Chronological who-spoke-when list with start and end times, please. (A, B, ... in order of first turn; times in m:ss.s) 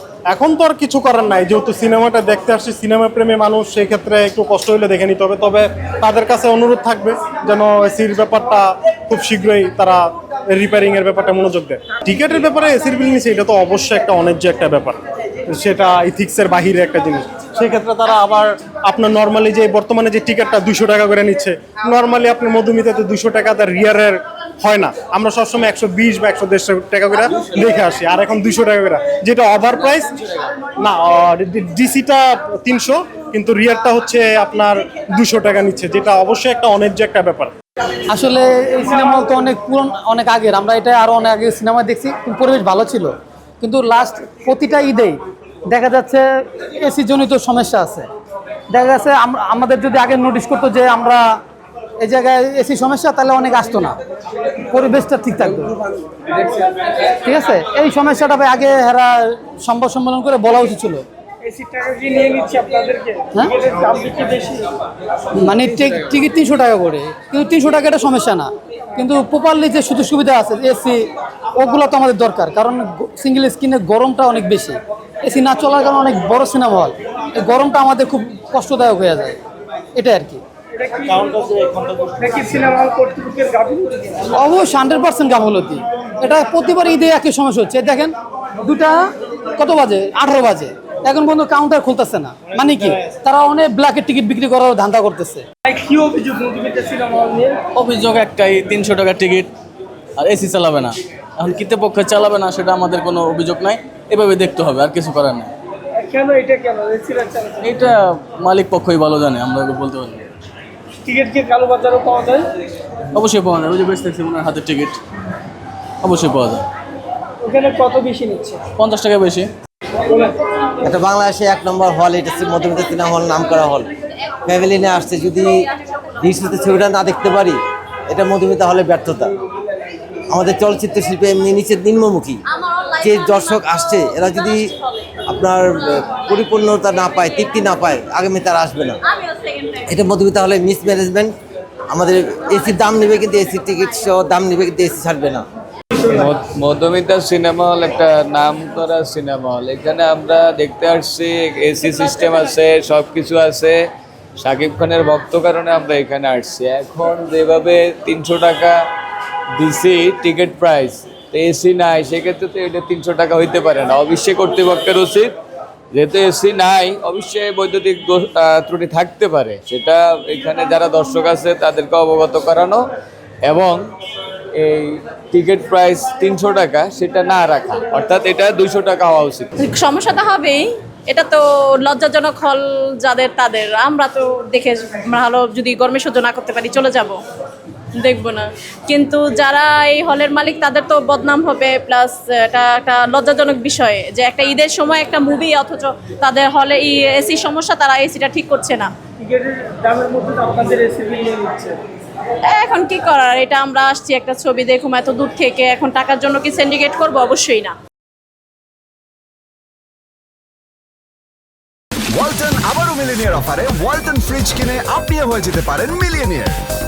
0:00.3-0:10.0 A
0:10.5-0:30.2 A
0:30.8-0:37.5 A
0:38.1-0:45.2 B
0:45.7-0:48.1 B
0:48.7-0:51.2 B
0:52.0-0:54.0 B
0:54.7-0:55.7 B
0:57.2-1:01.0 B
1:01.4-1:04.6 C
1:05.3-1:11.0 B
1:11.6-1:19.4 B
1:20.0-1:20.4 B
1:20.8-1:24.1 C
1:24.4-1:29.0 B
1:29.6-1:35.4 B
1:35.7-1:37.6 C
1:37.7-1:39.5 D
1:40.2-1:45.5 D
1:46.0-1:47.7 C
1:47.6-1:50.3 D
1:51.0-1:52.4 C
1:53.1-1:55.0 D
1:56.0-1:56.6 D
1:57.4-1:58.6 C
1:58.8-1:59.5 D
2:00.8-2:03.9 E
2:04.4-2:05.7 E
2:06.2-2:07.6 E
2:08.1-2:09.3 E
2:10.3-2:12.4 E
2:13.0-2:14.7 E
2:15.3-2:19.0 E
2:19.9-2:21.3 E
2:21.9-2:25.4 E
2:26.0-2:33.8 F
2:34.4-2:38.8 F
2:39.6-2:45.3 F
2:45.9-2:52.9 F
2:53.4-2:53.8 F
2:54.5-2:59.5 F
2:59.6-3:07.2 G
3:07.9-3:18.9 G
3:19.2-3:21.8 C
3:22.5-3:27.7 G
3:32.1-3:36.6 H